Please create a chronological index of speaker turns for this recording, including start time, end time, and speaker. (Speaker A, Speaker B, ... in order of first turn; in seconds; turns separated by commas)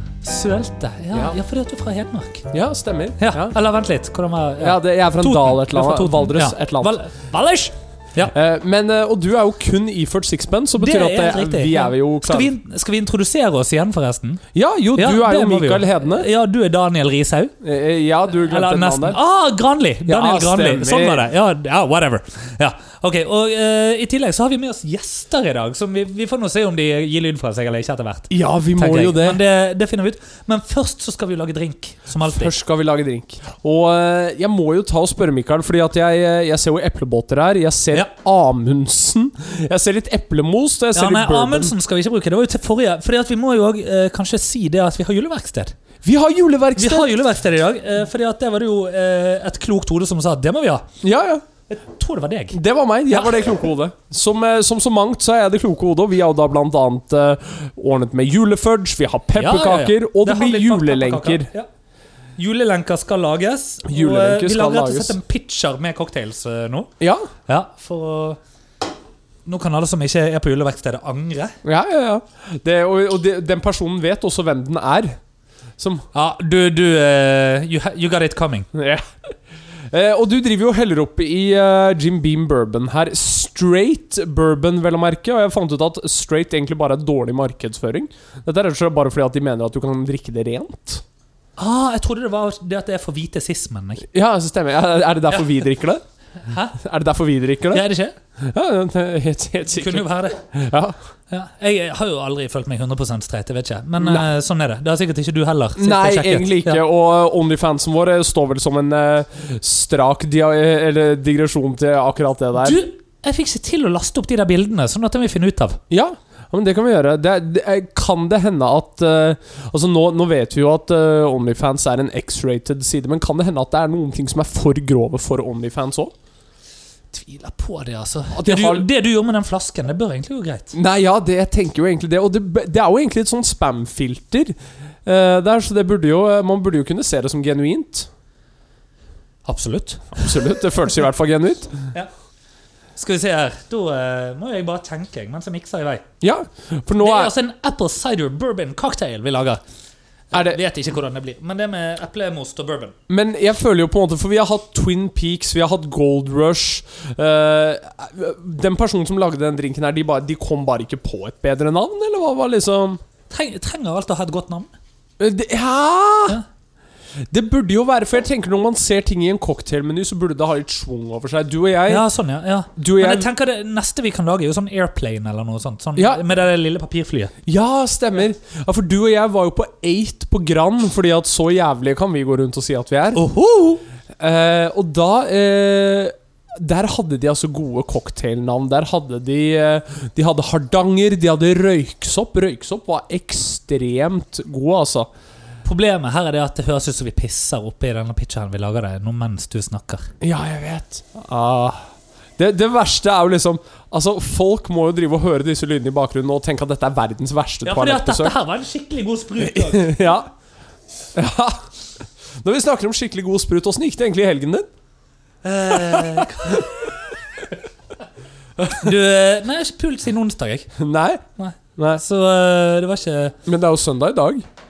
Speaker A: 0.2-2.5, Speaker B: 2.5-3.6, Speaker A: 3.2-8.3, Speaker B: 4.6-6.9, Speaker B: 8.3-12.5, Speaker A: 10.8-14.4, Speaker B: 14.5-16.3, Speaker A: 14.9-17.5, Speaker B: 17.6-19.2, Speaker A: 18.4-32.5, Speaker B: 20.1-21.3, Speaker B: 28.3-29.4, Speaker B: 32.2-41.7, Speaker A: 40.9-45.7, Speaker B: 46.0-47.2, Speaker A: 46.8-50.9, Speaker B: 51.0-51.4, Speaker A: 51.7-52.6, Speaker B: 52.5-61.5, Speaker A: 53.1-53.4, Speaker A: 59.3-61.7, Speaker A: 62.4-66.9, Speaker B: 63.9-65.2, Speaker B: 67.0-67.3, Speaker A: 67.5-68.4, Speaker A: 69.5-71.6, Speaker B: 71.6-75.2, Speaker B: 75.8-76.1, Speaker A: 76.1-78.7, Speaker B: 78.7-91.0, Speaker A: 91.6-94.0, Speaker B: 94.1-96.0, Speaker A: 96.4-96.8, Speaker B: 96.8-97.8, Speaker A: 97.7-98.2, Speaker B: 98.4-101.0, Speaker A: 99.7-100.4, Speaker A: 101.3-106.8, Speaker B: 104.0-104.2, Speaker B: 105.8-112.8, Speaker A: 112.6-115.8, Speaker B: 115.9-126.1, Speaker A: 127.1-130.8, Speaker B: 128.3-128.9, Speaker B: 130.7-138.1, Speaker A: 139.4-140.6, Speaker B: 140.2-141.9, Speaker A: 142.9-146.0, Speaker B: 146.2-147.3, Speaker A: 147.0-149.6, Speaker A: 150.3-152.9, Speaker B: 150.3-150.6, Speaker B: 153.1-163.0, Speaker A: 163.3-164.7, Speaker B: 165.2-166.4, Speaker B: 167.3-172.0, Speaker A: 171.9-177.3, Speaker B: 172.8-173.3, Speaker B: 175.9-176.2, Speaker B: 177.4-183.2, Speaker A: 183.1-183.8, Speaker B: 184.2-195.1, Speaker A: 195.6-200.1, Speaker B: 200.2-208.3, Speaker A: 207.6-209.9, Speaker B: 209.4-210.3, Speaker B: 211.1-214.7, Speaker A: 215.4-216.9, Speaker B: 215.7-216.6, Speaker B: 218.6-218.8, Speaker A: 218.6-220.7, Speaker B: 220.8-221.2, Speaker A: 221.4-223.3, Speaker B: 221.8-222.0, Speaker B: 223.4-224.4